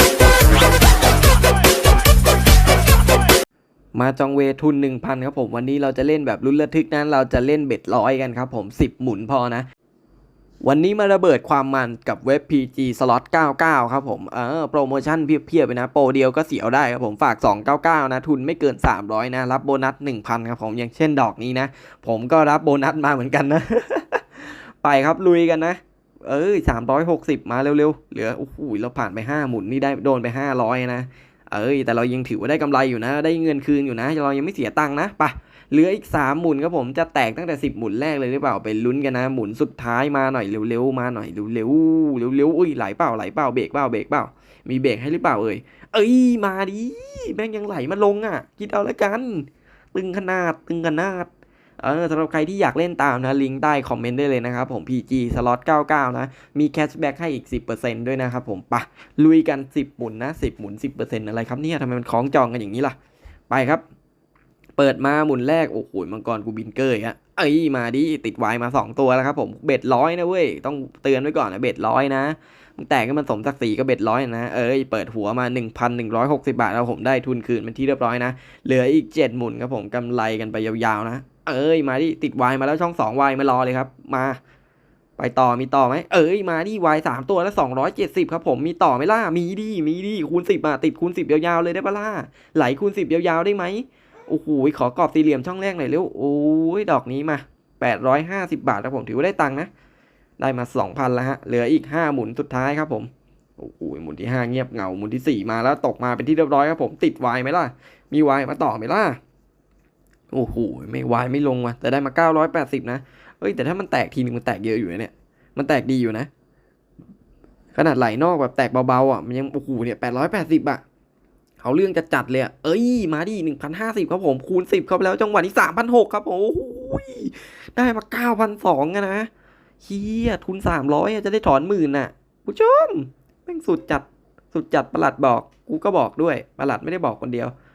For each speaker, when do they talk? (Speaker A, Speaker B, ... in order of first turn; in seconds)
Speaker A: 3.9-9.7, 10.6-63.0, 63.5-63.8, 64.8-84.4, 85.2-99.7, 100.4-109.2, 110.3-116.3, 117.7-120.8, 121.6-129.3, 129.8-137.5